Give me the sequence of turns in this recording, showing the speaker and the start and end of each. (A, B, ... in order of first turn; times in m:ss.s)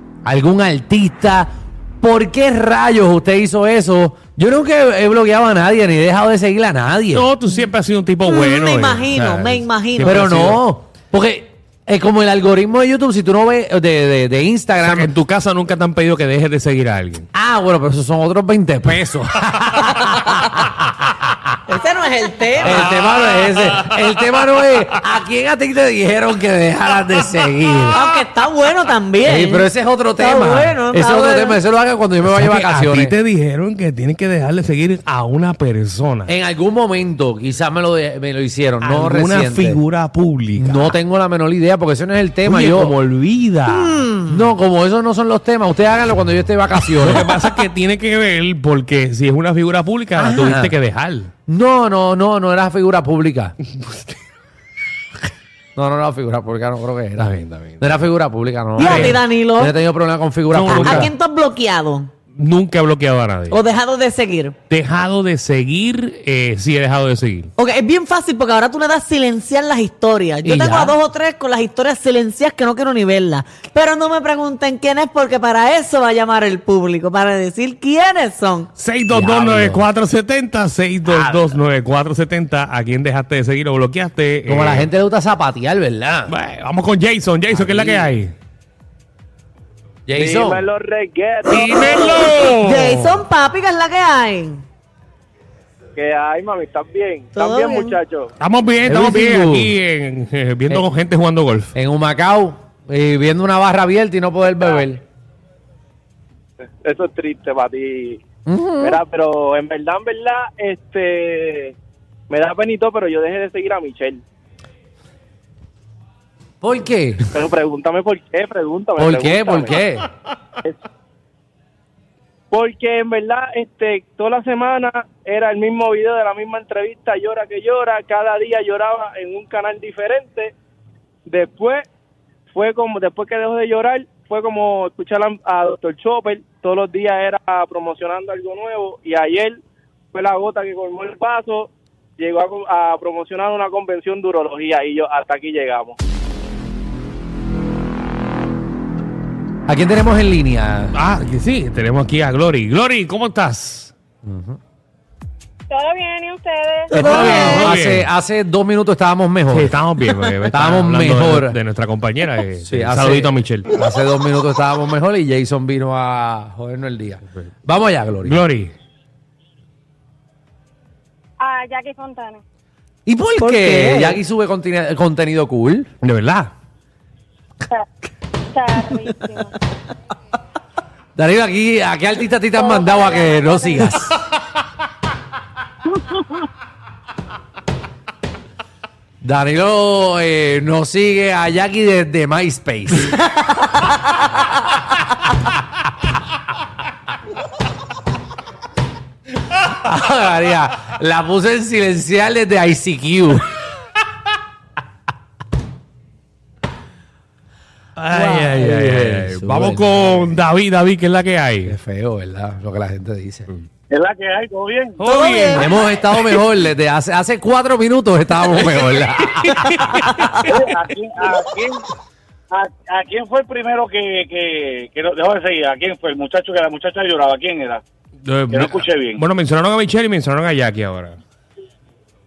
0:00.2-0:01.5 A
0:02.0-0:07.3 A
0:07.1-0:10.6 B
0:08.3-0:10.0 C
0:10.0-0:15.1 A
0:14.8-0:17.3 B
0:17.3-0:21.3 A
0:21.8-0:22.7 C
0:22.6-0:24.1 B
0:22.6-0:28.1 A
0:28.1-0:29.4 C
0:29.2-0:33.2 A
0:30.2-0:31.4 D
0:30.4-0:31.1 C
0:32.2-0:36.3 B
0:36.3-0:39.8 A
0:38.8-0:41.0 B
0:40.6-0:43.0 A
0:42.4-0:44.3 B
0:44.3-0:47.3 A
0:47.0-0:51.3 B
0:50.2-0:50.8 A
0:51.5-0:53.6 A
0:53.7-0:54.1 B
0:55.8-1:01.1 A
0:57.2-0:58.0 B
0:58.8-0:59.2 B
0:58.8-0:59.6 C
1:00.5-1:01.1 B
1:00.7-1:02.1 C
1:02.4-1:03.6 B
1:03.6-1:04.5 C
1:04.7-1:07.5 B
1:07.6-1:18.7 C
1:10.4-1:10.9 A
1:10.4-1:11.0 B
1:18.8-1:24.9 B
1:19.1-1:19.9 A
1:21.0-1:21.5 A
1:24.5-1:26.3 A
1:26.3-1:28.3 B
1:27.5-1:28.1 A
1:30.1-1:30.6 A
1:30.1-1:32.5 E
1:31.5-1:33.2 B
1:32.7-1:34.6 C
1:32.7-1:33.0 D
1:36.0-1:38.3 E
1:37.5-1:37.9 D
1:38.4-1:41.7 B
1:38.8-1:39.7 A
1:41.7-1:45.0 A
1:46.6-1:48.2 E
1:48.5-1:49.0 A
1:48.8-1:51.7 E
1:52.3-1:54.2 E
1:56.6-1:57.2 A
1:57.3-1:59.8 E
1:59.0-2:00.1 A
2:02.5-2:10.5 E
2:11.3-2:11.8 E
2:12.5-2:19.6 E
2:20.1-2:26.0 E
2:29.7-2:31.0 A
2:30.9-2:33.9 B
2:34.2-2:34.6 A
2:35.7-2:37.6 D
2:36.9-2:39.8 A
2:36.9-2:38.1 B
2:39.5-2:43.8 B
2:40.5-2:41.6 A
2:42.7-2:48.4 A
2:48.2-2:48.7 B
2:51.4-2:52.4 D
2:53.1-2:55.9 A
2:53.6-2:54.1 D
2:56.0-2:56.5 B
2:58.6-2:59.5 D
3:01.2-3:04.2 A
3:09.2-3:13.2 A
3:19.6-3:23.5 A
3:28.0-3:31.7 B
3:28.1-3:30.3 A
3:31.7-3:33.5 A
3:33.9-3:35.0 F
3:35.0-3:35.7 B
3:35.1-3:35.6 D
3:35.5-3:39.7 A
3:38.7-3:40.5 B
3:40.5-3:41.8 F
3:42.6-3:47.8 F
3:48.2-3:51.2 B
3:48.7-3:49.2 F